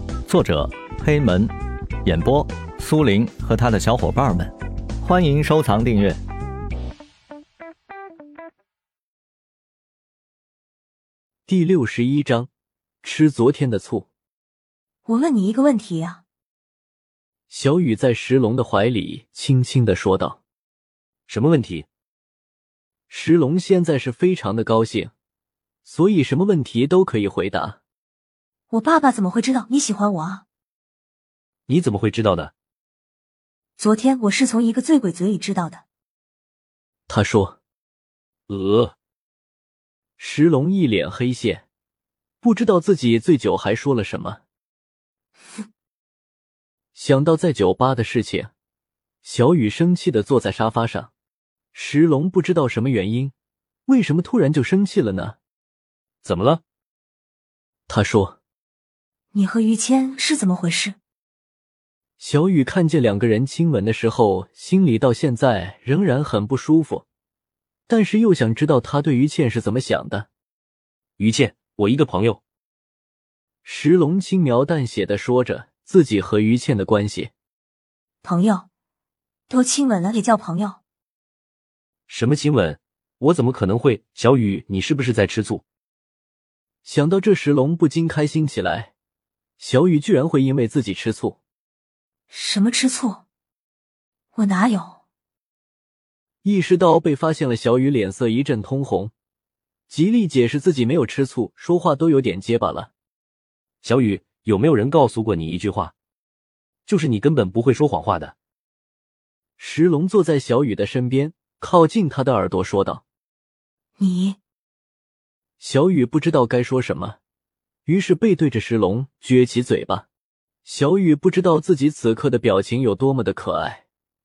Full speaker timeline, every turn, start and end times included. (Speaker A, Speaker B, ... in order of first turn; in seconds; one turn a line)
Speaker A: 0.3-1.5
Speaker A: 2.0-6.2
Speaker B: 11.5-12.5
Speaker B: 13.0-14.1
Speaker C: 15.1-16.2
Speaker B: 17.5-20.4
Speaker D: 21.3-21.9
Speaker B: 23.1-25.1
Speaker B: 25.8-27.8
Speaker C: 28.7-30.4
Speaker D: 31.7-32.5
Speaker C: 33.8-35.8
Speaker B: 37.1-37.6
Speaker D: 38.5-39.0
Speaker B: 40.2-41.6
Speaker B: 42.4-44.4
Speaker B: 47.0-48.5
Speaker B: 49.2-51.1
Speaker B: 51.7-53.3
Speaker B: 53.9-55.4
Speaker D: 56.2-56.6
Speaker B: 57.9-58.4
Speaker C: 59.3-61.0
Speaker B: 62.2-67.0
Speaker B: 67.9-70.3
Speaker D: 71.2-72.4
Speaker B: 73.7-77.3
Speaker C: 78.2-78.7
Speaker C: 79.5-80.8
Speaker D: 82.1-85.6
Speaker B: 86.8-88.9
Speaker B: 89.6-91.4
Speaker C: 92.3-93.2
Speaker C: 94.3-95.0
Speaker B: 96.4-99.1
Speaker B: 99.9-102.9
Speaker D: 103.8-105.9
Speaker D: 106.9-108.3
Speaker B: 109.6-113.0
Speaker C: 114.0-114.4
Speaker B: 115.6-117.2
Speaker B: 117.9-120.1
Speaker B: 120.7-123.8